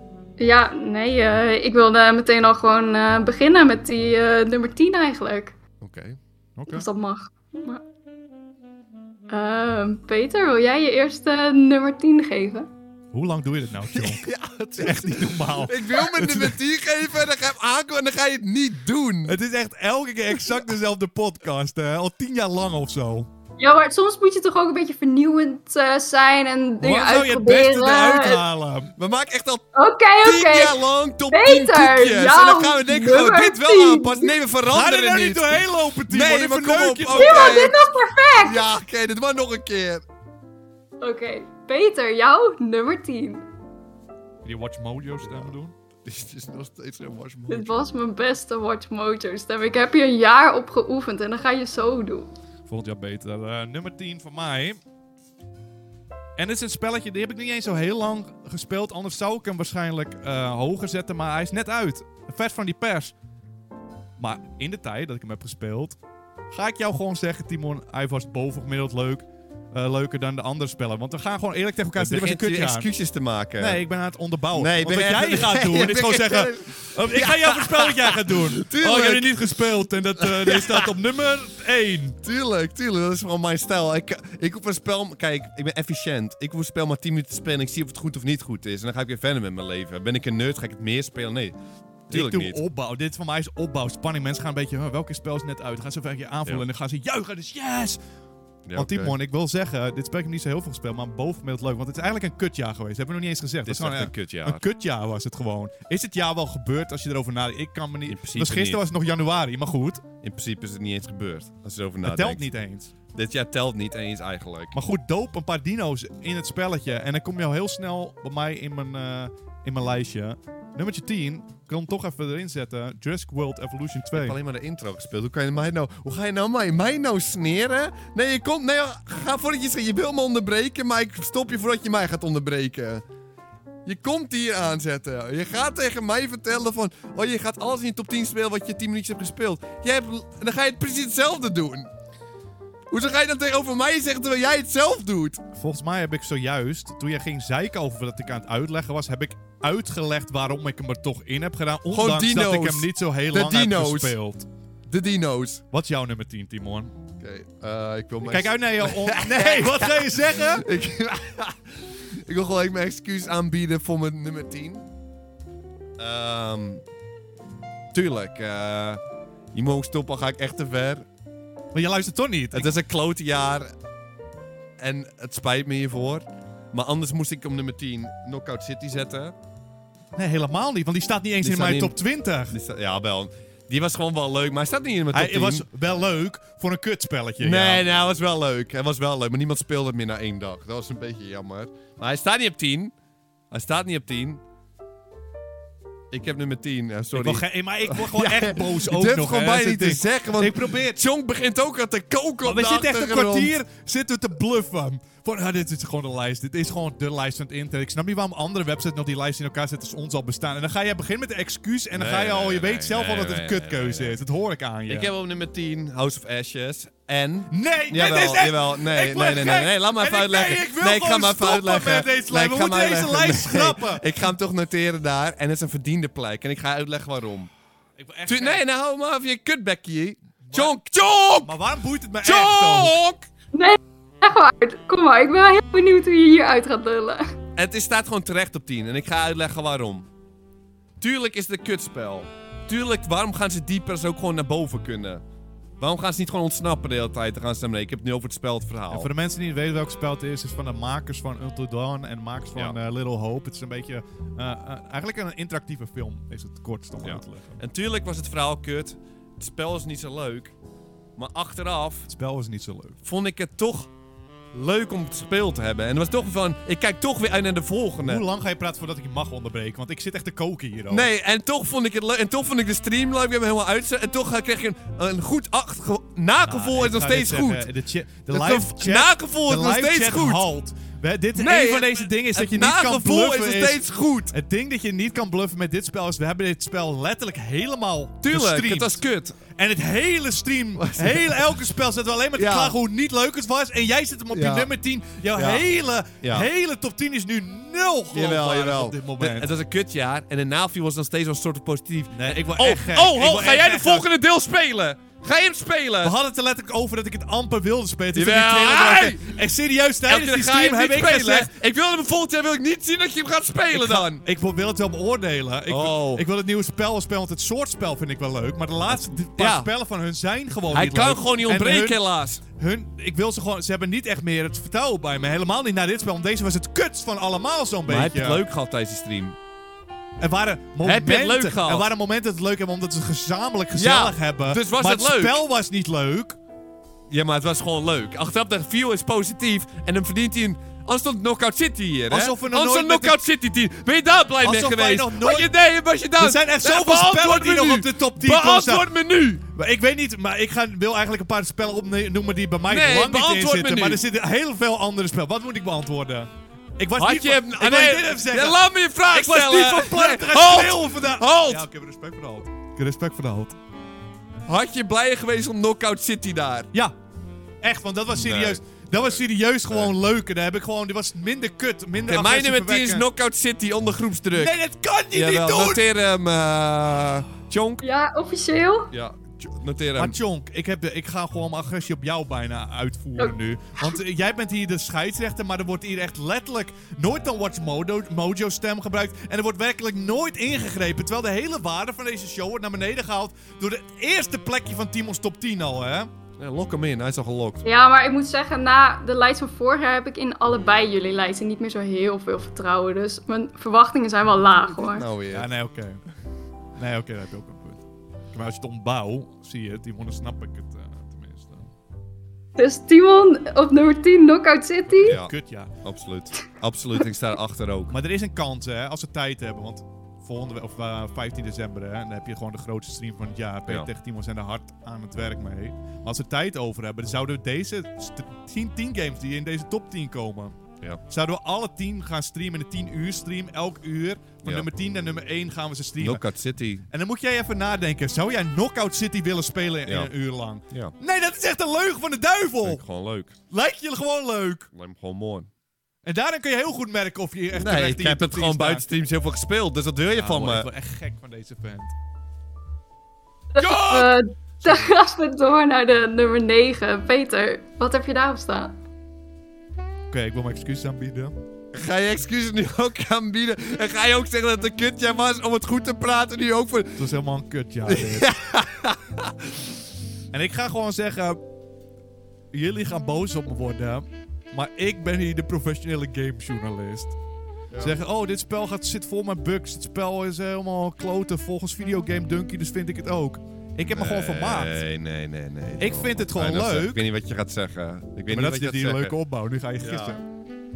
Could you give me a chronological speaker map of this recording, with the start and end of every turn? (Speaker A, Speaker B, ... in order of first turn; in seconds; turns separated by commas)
Speaker A: 0.4-5.6, Speaker B: 5.8-6.2, Speaker C: 6.6-6.9, Speaker A: 6.7-7.8, Speaker A: 9.3-12.7, Speaker C: 13.1-16.6, Speaker B: 13.9-19.4, Speaker C: 19.2-23.3, Speaker A: 23.6-28.4, Speaker C: 26.8-28.9, Speaker B: 29.0-29.6, Speaker A: 29.8-34.4, Speaker B: 30.2-37.8, Speaker C: 34.7-37.8, Speaker A: 37.1-38.7, Speaker B: 38.3-40.0, Speaker A: 41.0-43.5, Speaker C: 44.4-45.8, Speaker B: 46.0-47.9, Speaker A: 47.5-52.3, Speaker C: 52.7-54.8, Speaker C: 56.4-63.1, Speaker C: 64.2-66.0, Speaker C: 66.5-72.9, Speaker B: 72.0-73.8, Speaker C: 73.6-82.2, Speaker B: 74.5-79.3, Speaker B: 80.2-80.9, Speaker B: 82.2-91.6, Speaker B: 92.1-92.6, Speaker C: 92.1-98.0, Speaker B: 98.7-99.2, Speaker C: 98.8-110.0, Speaker B: 103.7-104.6, Speaker B: 108.1-108.8, Speaker B: 110.2-112.4, Speaker C: 112.0-112.9, Speaker B: 113.1-114.8, Speaker C: 114.7-124.4, Speaker B: 124.1-133.0, Speaker B: 133.8-141.9, Speaker B: 142.9-145.4, Speaker C: 145.5-154.5, Speaker B: 151.9-154.2, Speaker B: 154.9-155.6, Speaker C: 155.7-156.9, Speaker B: 157.2-164.8, Speaker C: 158.2-160.7, Speaker B: 166.0-166.8, Speaker B: 167.9-169.0, Speaker B: 169.5-171.1, Speaker C: 171.7-172.8, Speaker B: 172.5-173.7, Speaker B: 174.8-179.3, Speaker C: 180.2-182.6, Speaker B: 181.4-182.0, Speaker B: 182.5-185.7, Speaker C: 185.1-187.9, Speaker B: 187.4-192.9, Speaker B: 193.5-194.4, Speaker B: 196.1-203.5, Speaker C: 197.1-201.0, Speaker C: 202.4-215.1, Speaker B: 211.9-214.2, Speaker B: 214.9-227.5, Speaker C: 217.5-224.0, Speaker C: 228.0-228.6, Speaker B: 228.3-231.6, Speaker C: 230.5-230.8, Speaker C: 231.4-233.0, Speaker B: 232.2-233.2, Speaker A: 233.5-237.3, Speaker B: 237.6-240.1, Speaker B: 241.0-245.2, Speaker B: 245.8-249.1, Speaker C: 248.9-257.6, Speaker B: 257.0-260.5, Speaker B: 261.2-262.1, Speaker C: 262.1-263.0, Speaker B: 263.0-263.9, Speaker B: 264.5-268.2, Speaker C: 268.0-271.1, Speaker B: 270.9-277.7, Speaker C: 276.5-299.5, Speaker B: 278.3-280.5, Speaker B: 281.4-284.4, Speaker B: 288.2-289.4, Speaker B: 290.8-291.6, Speaker B: 292.4-292.8, Speaker B: 294.3-294.7, Speaker B: 295.3-295.6, Speaker B: 296.2-296.5, Speaker B: 298.1-306.2, Speaker C: 302.1-304.1, Speaker C: 306.0-311.5, Speaker B: 308.1-309.4, Speaker B: 310.1-314.2, Speaker C: 313.7-328.4, Speaker B: 315.7-316.2, Speaker B: 318.9-319.7, Speaker B: 320.7-322.4, Speaker B: 327.9-329.4, Speaker C: 330.2-336.4, Speaker B: 330.8-331.9, Speaker B: 333.8-335.4, Speaker B: 337.1-349.4, Speaker C: 342.1-343.2, Speaker C: 344.4-345.5, Speaker C: 346.2-348.9, Speaker C: 349.5-363.6, Speaker B: 352.7-354.0, Speaker B: 357.0-361.7, Speaker B: 364.5-366.7, Speaker C: 367.6-373.1, Speaker B: 368.1-369.9, Speaker B: 372.1-374.6, Speaker C: 374.4-375.8, Speaker B: 375.1-377.8, Speaker A: 377.8-378.9, Speaker B: 378.9-380.2, Speaker C: 380.0-396.1, Speaker A: 383.2-384.0, Speaker B: 396.4-397.6, Speaker A: 397.6-405.1, Speaker B: 404.8-405.5, Speaker C: 405.3-406.0, Speaker C: 406.8-411.7, Speaker A: 412.6-415.2, Speaker C: 415.0-415.8, Speaker B: 415.0-418.0, Speaker C: 417.9-430.6, Speaker C: 431.1-436.2, Speaker B: 436.0-436.9, Speaker C: 436.9-442.8, Speaker B: 442.6-443.4, Speaker C: 443.5-444.7, Speaker B: 444.7-445.5, Speaker C: 446.1-448.9, Speaker B: 447.5-450.7, Speaker C: 450.1-451.9, Speaker A: 453.6-458.8, Speaker B: 453.6-454.1, Speaker C: 460.1-461.3, Speaker B: 461.7-467.1, Speaker C: 467.0-468.3, Speaker B: 467.9-469.7, Speaker C: 470.3-471.4, Speaker C: 472.5-477.2, Speaker B: 477.7-478.0, Speaker C: 477.8-484.8, Speaker B: 483.9-489.2, Speaker C: 485.8-487.0, Speaker C: 488.3-490.2, Speaker B: 489.8-490.2